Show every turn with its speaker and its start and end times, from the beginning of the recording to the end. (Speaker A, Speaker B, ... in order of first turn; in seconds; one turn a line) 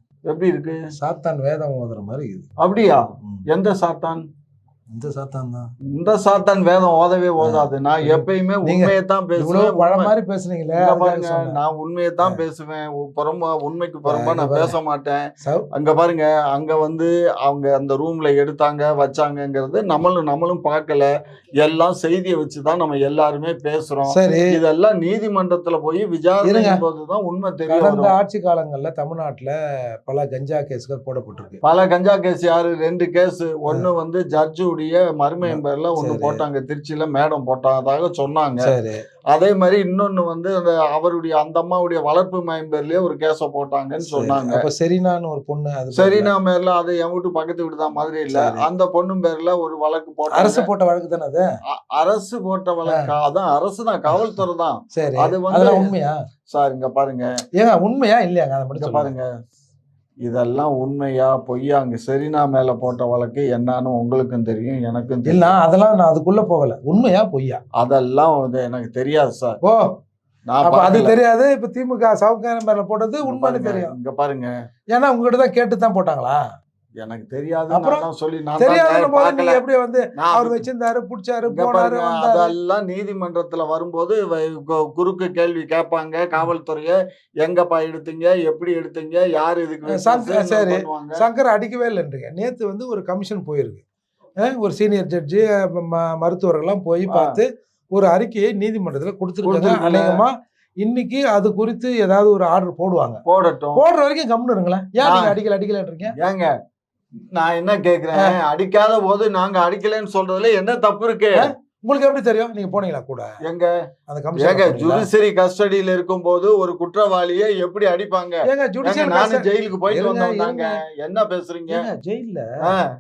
Speaker A: 0.2-0.8
Speaker B: 0.9-2.5
Speaker A: 2.6-4.2
Speaker B: 4.9-5.7
Speaker A: 5.9-10.1
Speaker B: 7.4-11.6
Speaker A: 10.7-28.1
Speaker B: 14.1-14.8
Speaker B: 15.4-15.7
Speaker B: 24.1-24.6
Speaker B: 26.4-26.8
Speaker B: 27.7-29.5
Speaker B: 30.0-31.6
Speaker A: 31.6-38.7
Speaker B: 35.4-36.4
Speaker B: 38.6-39.0
Speaker A: 39.3-44.6
Speaker B: 44.0-46.3
Speaker A: 45.9-50.7
Speaker B: 48.3-48.7
Speaker B: 50.3-51.5
Speaker A: 51.7-55.9
Speaker B: 54.9-56.1
Speaker A: 56.5-57.3
Speaker B: 57.6-59.1
Speaker A: 58.8-59.3
Speaker A: 60.2-65.5
Speaker B: 65.3-67.6
Speaker A: 67.8-69.6
Speaker B: 69.6-70.0
Speaker A: 70.5-71.2
Speaker B: 70.6-73.9
Speaker A: 73.2-74.5
Speaker B: 74.9-76.4
Speaker A: 77.0-79.6
Speaker B: 77.7-78.0
Speaker B: 78.6-82.5
Speaker A: 80.2-80.6
Speaker A: 81.5-91.2
Speaker B: 89.9-93.8
Speaker B: 94.4-103.2
Speaker A: 97.1-97.4
Speaker A: 99.4-100.2
Speaker A: 103.2-103.8
Speaker B: 103.8-106.1
Speaker A: 105.0-105.3
Speaker A: 106.1-106.5
Speaker A: 107.3-111.5
Speaker B: 111.3-113.3
Speaker A: 113.4-113.7
Speaker B: 114.1-115.1
Speaker A: 114.4-121.8
Speaker B: 118.5-120.8
Speaker B: 121.7-122.7
Speaker A: 122.6-122.9